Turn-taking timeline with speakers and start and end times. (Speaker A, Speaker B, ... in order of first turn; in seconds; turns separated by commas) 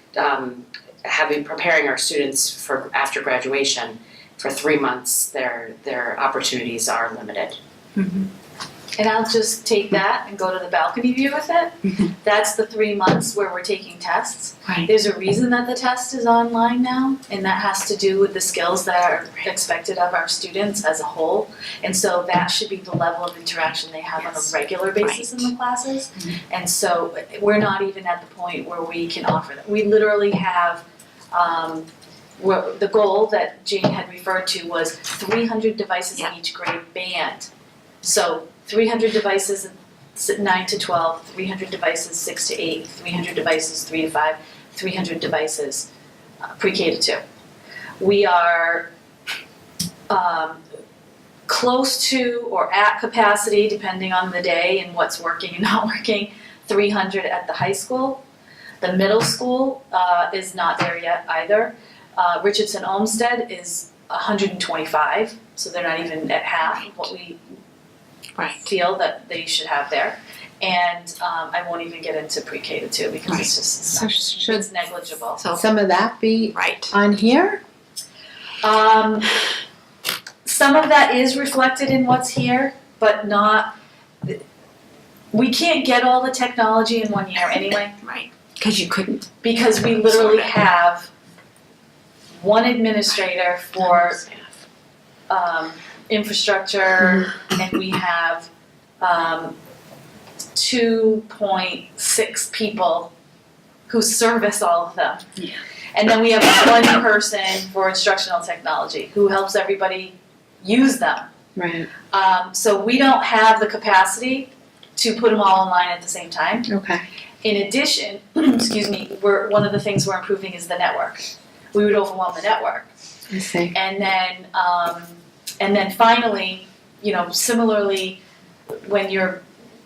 Speaker A: 0.1-7.6, Speaker B: 8.0-8.3, Speaker B: 8.9-37.5, Speaker C: 24.2-25.5, Speaker B: 38.0-45.9, Speaker B: 46.5-47.2, Speaker B: 48.0-48.9, Speaker B: 50.1-50.6, Speaker B: 51.5-58.2, Speaker B: 58.8-67.4, Speaker C: 68.3-68.7, Speaker B: 68.6-75.5, Speaker D: 73.9-74.7, Speaker D: 75.4-77.6, Speaker C: 76.5-76.9, Speaker B: 78.6-79.3, Speaker B: 80.4-84.4, Speaker B: 85.3-88.0, Speaker C: 88.0-89.3, Speaker B: 89.4-91.1, Speaker C: 89.9-90.6, Speaker B: 92.4-94.2, Speaker C: 93.8-94.4, Speaker B: 95.3-98.5, Speaker B: 99.0-99.6, Speaker B: 100.5-103.1, Speaker B: 103.9-105.3, Speaker B: 105.9-111.3, Speaker D: 111.5-111.9, Speaker B: 112.1-116.7, Speaker D: 116.7-117.0, Speaker B: 117.4-122.9, Speaker D: 123.3-123.7, Speaker B: 123.7-128.2, Speaker B: 128.8-129.4